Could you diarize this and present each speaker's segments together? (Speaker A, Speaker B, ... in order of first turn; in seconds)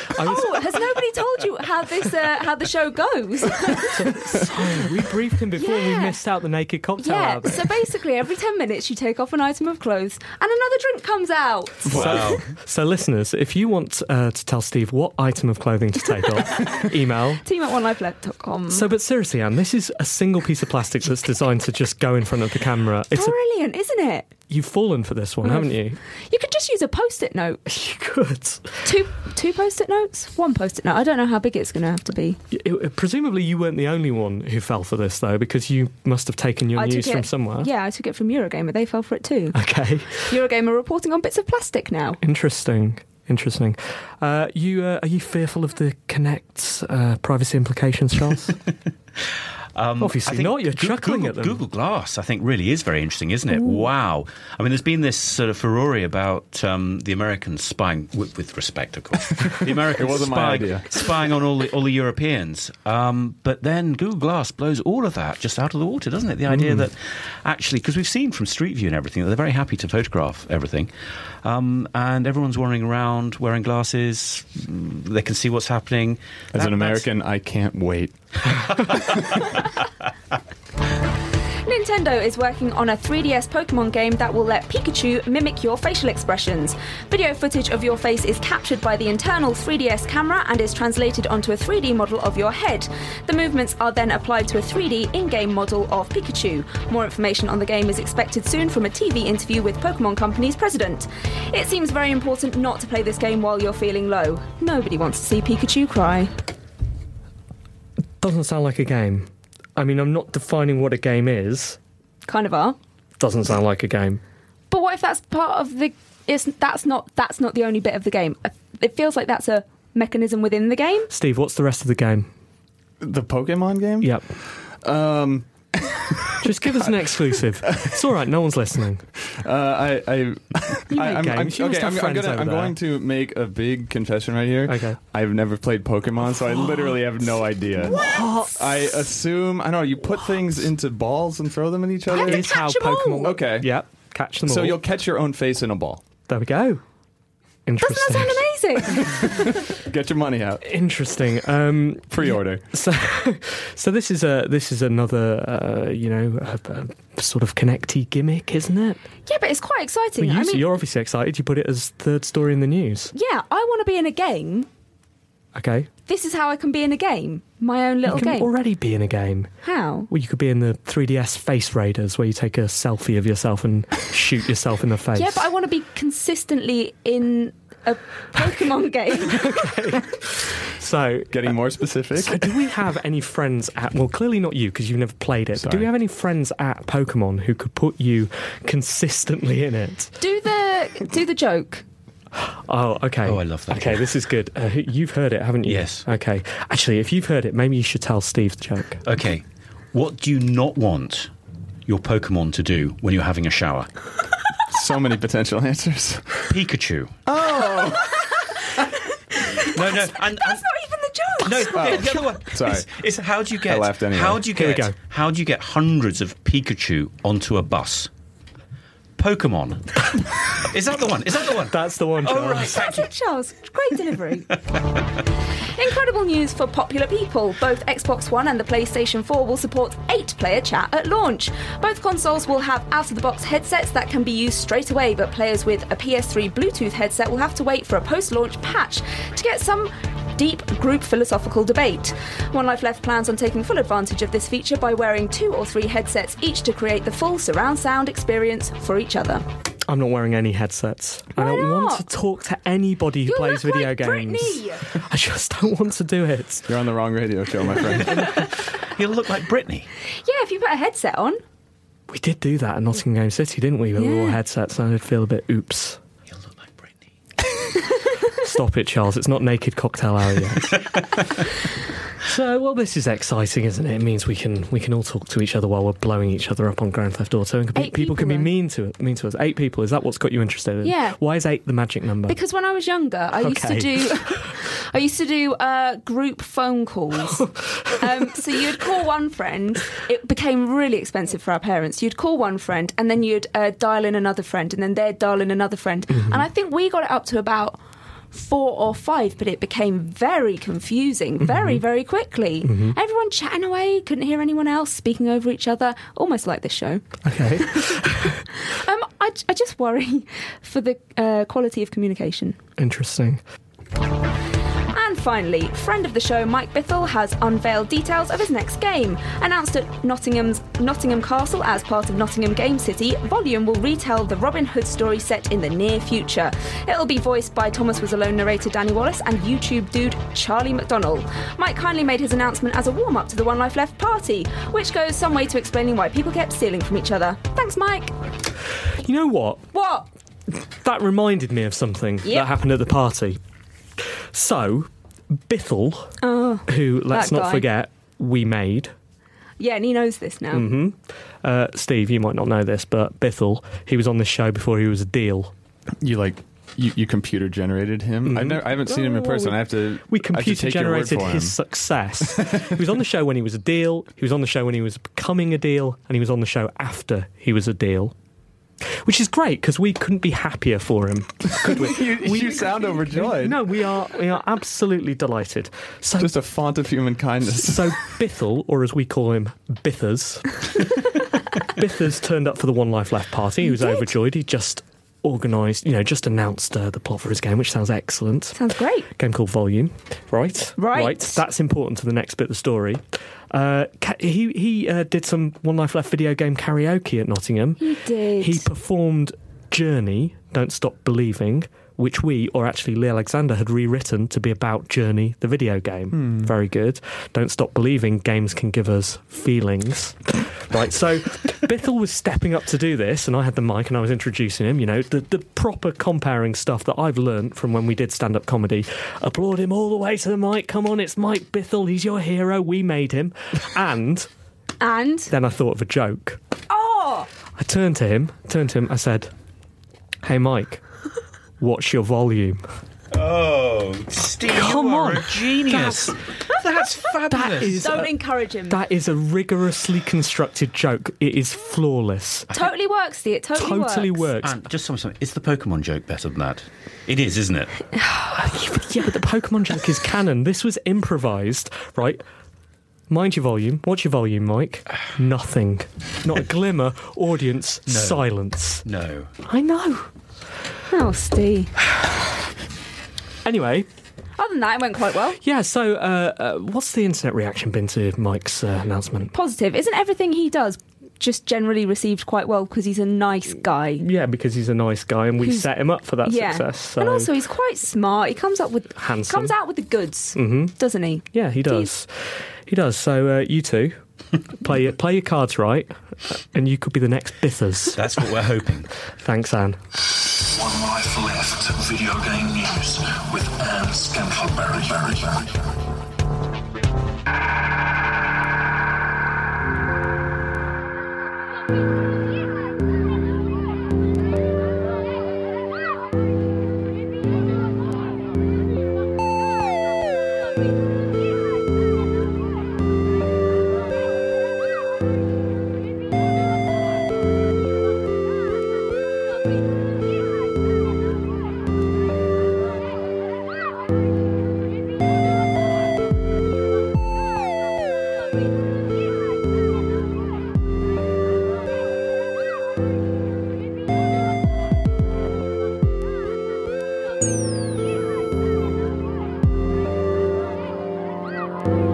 Speaker A: 0.1-0.6, 3.9-7.7, 11.9-17.4, 18.7-23.3, 24.5-26.0, 27.7-28.9, 32.5-37.7, 39.5-40.3, 42.2-48.5, 50.0-51.6, 66.5-66.8, 108.2-111.8, 113.2-114.2, 121.1-122.3, 124.0-124.3, 126.4-129.1, 130.9-132.8, 134.7-135.0, 136.5-136.9, 137.8-138.6, 142.2-144.8, 146.3-146.8, 147.7-148.4, 150.6-159.0, 160.2-163.1, 165.6-165.9, 168.1-169.5, 170.1-175.4, 179.3-181.5, 182.2-190.1, 192.4-199.0, 214.5-214.9, 221.7-222.8, 249.9-256.7, 262.1-266.0, 268.4-270.8, 272.2-282.4, 283.4-284.4, 287.6-288.0, 296.1-296.4, 301.4-301.8, 302.6-302.9, 307.2-308.4, 312.8-313.4, 339.0-339.6, 340.5-343.4, 344.3-348.9, 350.5-355.5, 358.2-368.1, 369.0-376.3, 377.6-380.8, 381.6-388.6, 389.1-397.8, 398.4-424.3, 425.3-426.4, 427.6-429.3, 430.2-430.8, 431.6-432.6, 434.5-436.1, 437.3-438.1, 438.7-442.5, 443.6-444.5, 448.3-452.2, 453.1-458.8, 459.4-460.1, 463.4-463.9, 465.4-469.3, 474.0-477.3, 479.0-479.5, 480.4-480.7, 481.3-484.0, 484.6-488.0, 489.2-489.8
Speaker B: 0.2-4.1, 5.6-6.2, 7.0-12.2, 16.1-16.9, 17.4-18.9, 23.1-24.3, 25.4-27.6, 28.8-32.4, 36.7-39.6, 40.2-42.2, 81.7-106.3, 112.3-112.8, 114.7-121.1, 137.8-138.6, 142.1-143.4, 147.8-149.6, 159.3-160.7, 163.1-164.7, 166.1-168.5, 169.6-170.1, 175.1-179.8, 190.2-191.8, 208.2-212.3, 222.6-224.6, 225.6-249.4, 251.4-252.0, 253.3-254.9, 260.2-261.4, 263.9-264.4, 267.8-268.3, 277.7-278.5, 280.8-281.2, 282.3-297.8, 298.3-312.6, 314.9-338.1, 339.7-340.1, 342.2-342.5, 346.2-347.7, 349.6-350.7, 383.6-384.1, 388.5-389.1, 390.8-391.4, 397.8-398.6, 424.8-425.3, 426.7-427.3, 437.8-438.8, 442.5-444.3, 448.0-448.3, 460.9-461.7, 464.4-465.4, 469.3-474.0, 475.4-475.7, 476.2-481.9
Speaker C: 11.9-12.4, 49.7-70.9, 71.4-77.0, 78.8-79.4, 193.2-194.1, 195.6-196.0, 199.1-201.3, 201.9-203.9, 206.5-207.2, 209.6-210.6, 211.4-218.1, 219.2-223.1, 258.1-259.9, 266.3-266.9, 270.7-271.0, 433.1-438.0, 444.4-447.7, 457.9-458.3, 458.8-459.3, 487.9-488.9
Speaker D: 59.6-60.9, 76.5-78.2, 123.0-128.0, 129.3-142.5, 143.2-143.8, 144.4-146.0, 149.8-150.6, 152.1-152.6, 181.3-182.7, 185.6-185.9, 204.7-206.4, 207.2-208.2, 211.7-212.8, 213.6-214.4, 256.7-258.2, 356.0-361.6, 362.4-362.7, 371.6-373.6, 376.2-377.9, 406.1-406.5
Speaker E: 490.4-495.6